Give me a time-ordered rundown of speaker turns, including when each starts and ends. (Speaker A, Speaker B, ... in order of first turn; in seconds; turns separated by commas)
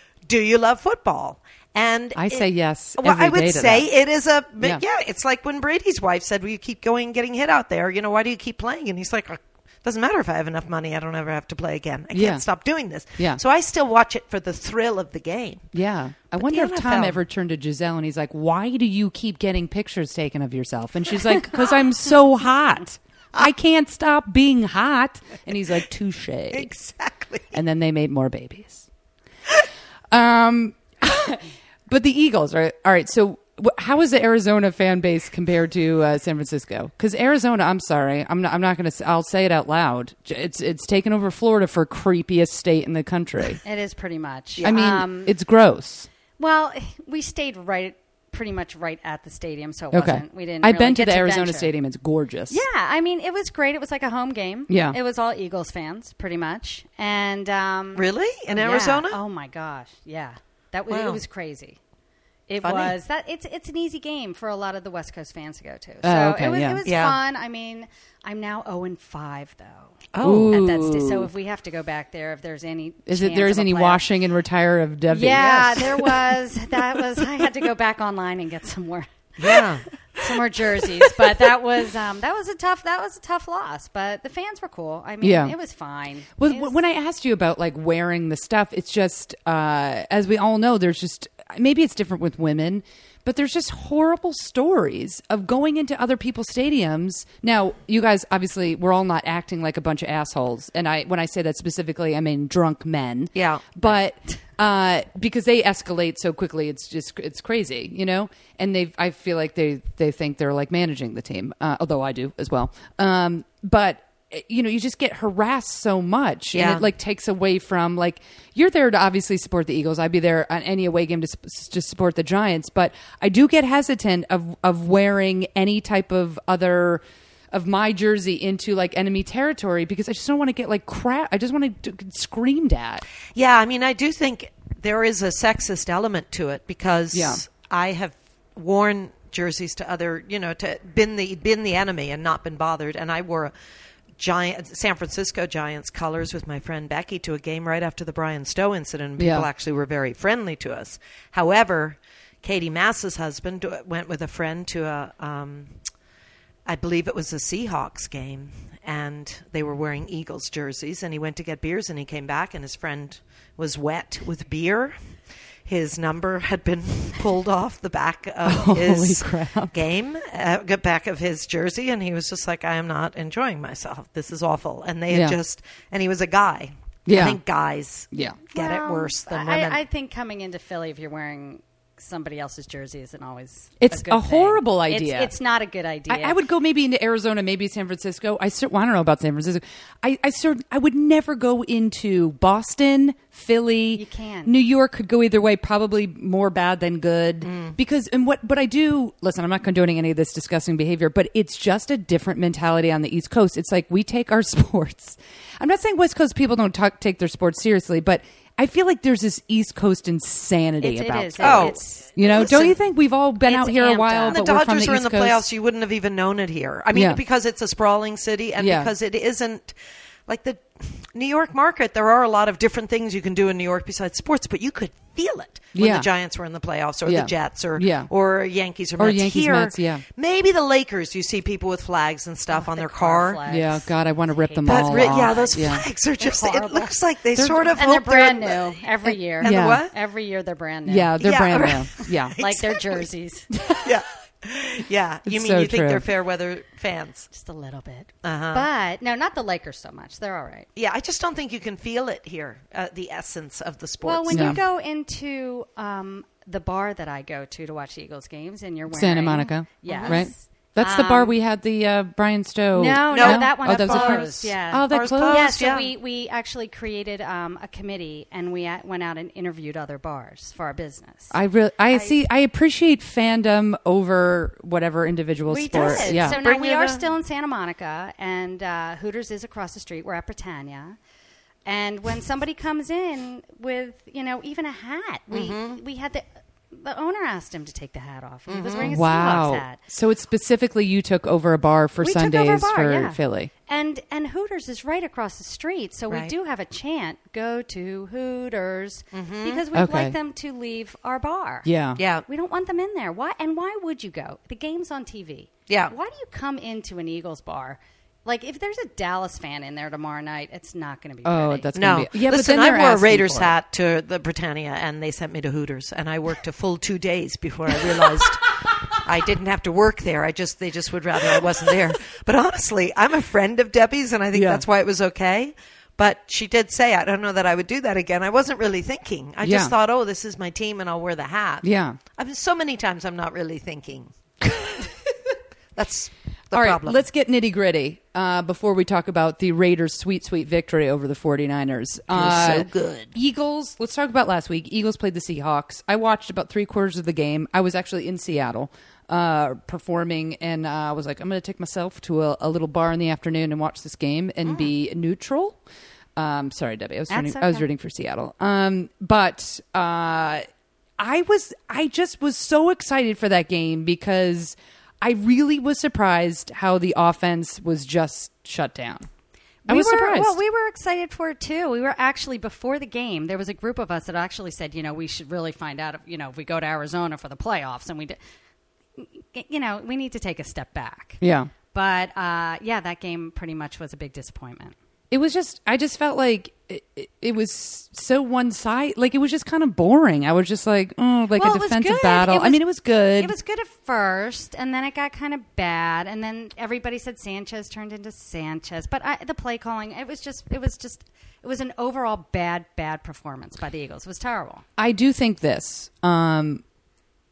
Speaker A: 0.2-15.7, Speaker B: 2.1-3.9, Speaker B: 12.1-12.4, Speaker B: 15.7-26.7, Speaker A: 16.4-17.2, Speaker A: 26.5-27.6, Speaker B: 27.5-28.9, Speaker B: 30.1-43.6, Speaker C: 43.6-45.3, Speaker B: 44.6-46.1, Speaker C: 46.4-51.7, Speaker B: 49.9-52.6, Speaker C: 52.5-61.8, Speaker B: 54.7-55.0, Speaker A: 57.9-59.2, Speaker A: 60.9-61.2, Speaker C: 62.5-74.0, Speaker A: 62.6-63.0, Speaker B: 66.0-66.8, Speaker A: 66.8-67.2, Speaker A: 70.1-70.6, Speaker B: 70.2-71.3, Speaker B: 73.1-76.1, Speaker C: 75.1-86.8, Speaker A: 79.4-79.8, Speaker B: 85.2-85.5, Speaker B: 86.4-133.0, Speaker A: 103.3-103.7, Speaker A: 116.5-116.9, Speaker A: 133.3-143.5, Speaker B: 137.1-137.4, Speaker A: 144.2-155.8, Speaker B: 149.2-149.5, Speaker A: 156.7-179.8, Speaker B: 168.4-169.7, Speaker B: 175.1-175.4, Speaker B: 177.1-177.4, Speaker B: 178.1-178.4, Speaker C: 178.5-186.4, Speaker B: 183.8-185.3, Speaker B: 186.1-215.4, Speaker C: 193.9-194.5, Speaker A: 197.4-197.8, Speaker C: 210.8-212.5, Speaker A: 211.4-212.8, Speaker C: 213.4-214.4, Speaker A: 214.3-219.7, Speaker B: 216.9-217.2, Speaker B: 218.6-218.9, Speaker A: 220.3-233.4, Speaker B: 225.7-226.1, Speaker B: 227.0-228.1, Speaker B: 229.0-230.0, Speaker C: 232.5-236.9, Speaker B: 233.5-235.8, Speaker A: 234.6-239.9, Speaker B: 237.3-237.7, Speaker C: 237.7-243.5, Speaker B: 239.4-239.8, Speaker B: 240.8-242.3, Speaker A: 241.2-243.1, Speaker B: 243.6-243.8, Speaker A: 243.8-247.3, Speaker B: 245.2-246.0, Speaker C: 247.3-250.7, Speaker A: 248.2-248.7, Speaker A: 250.8-254.6, Speaker C: 254.0-261.3, Speaker B: 254.3-254.6, Speaker B: 258.9-265.4, Speaker A: 259.9-260.2, Speaker C: 262.7-271.4, Speaker A: 263.1-265.9, Speaker B: 271.3-276.4, Speaker C: 271.9-272.2, Speaker C: 275.5-281.0, Speaker A: 275.7-277.1, Speaker C: 281.6-289.8, Speaker A: 285.3-285.8, Speaker A: 288.5-289.0, Speaker B: 288.8-293.5, Speaker C: 292.0-301.7, Speaker A: 299.1-299.6, Speaker B: 299.7-300.1, Speaker B: 301.6-302.0, Speaker A: 302.0-302.2, Speaker C: 302.2-311.7, Speaker A: 305.7-305.9, Speaker B: 311.2-313.5, Speaker A: 311.7-334.1, Speaker B: 324.3-324.6, Speaker B: 329.4-329.7, Speaker B: 331.6-332.0, Speaker A: 335.7-337.0, Speaker B: 336.5-355.6, Speaker A: 342.1-343.1, Speaker A: 354.4-354.7, Speaker B: 356.1-360.4, Speaker C: 357.1-357.6, Speaker B: 361.0-369.1, Speaker C: 369.6-378.2, Speaker B: 369.7-370.4, Speaker C: 379.0-381.2, Speaker B: 381.2-381.5, Speaker C: 381.7-384.7, Speaker B: 385.1-393.3, Speaker C: 391.3-392.6, Speaker C: 393.2-404.6, Speaker B: 404.8-406.6